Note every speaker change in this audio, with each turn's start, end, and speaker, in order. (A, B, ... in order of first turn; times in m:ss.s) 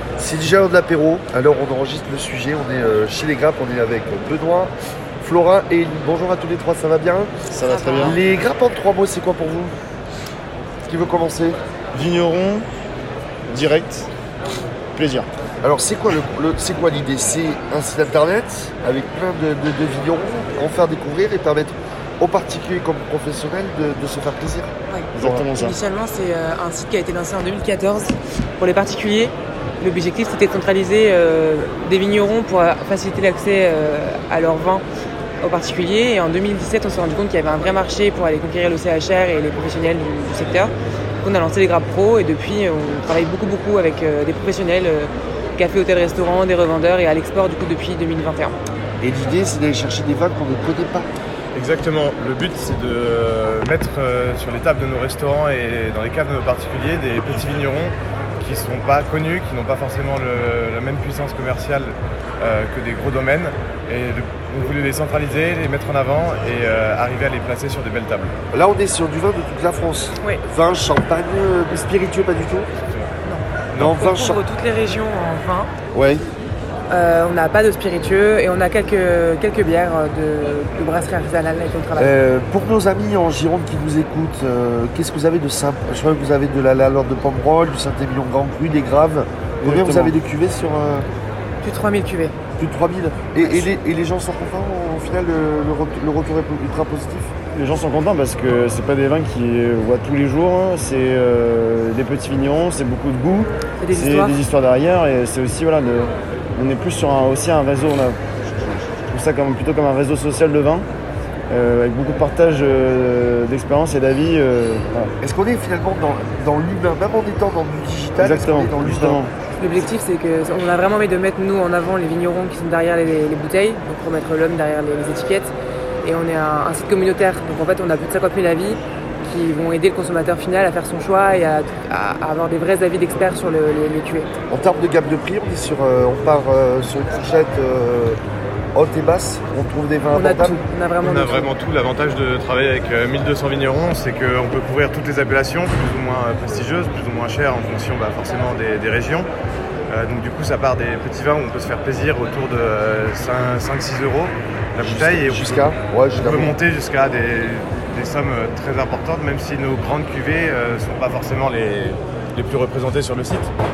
0:00.2-0:07.3 A
0:07.5-0:08.2 B
0:07.6-0:08.2 C
0:08.0-0:09.8 A
0:10.8-0:11.6 A
0:11.9-0:12.7 B
0:13.5-0:14.1 B
0:15.0-0:15.3 B
0:15.6-0:25.4 A
0:24.9-0:34.8 C
0:25.1-0:25.8 B
0:35.4-0:48.6 C
0:49.0-0:51.1 A
0:51.5-1:08.3 D
1:08.5-1:12.7 A
1:13.2-1:15.7 C
1:13.7-1:14.0 D
1:13.8-1:14.4 A
1:15.9-1:16.2 A
1:16.9-1:22.2 C
1:22.0-1:31.1 A
1:29.6-1:30.2 B
1:31.6-1:32.4 C
1:32.6-1:37.3 A
1:37.5-1:50.9 B
1:43.8-1:44.4 C
1:51.5-1:55.1 B
1:55.2-1:59.2 A
1:58.2-1:59.3 B
1:59.6-2:05.5 C
2:06.0-2:14.3 C
2:14.5-2:18.2 A
2:18.7-2:20.6 A
2:20.1-2:21.5 C
2:21.0-2:29.3 D
2:29.9-2:43.5 D
2:34.8-2:36.6 A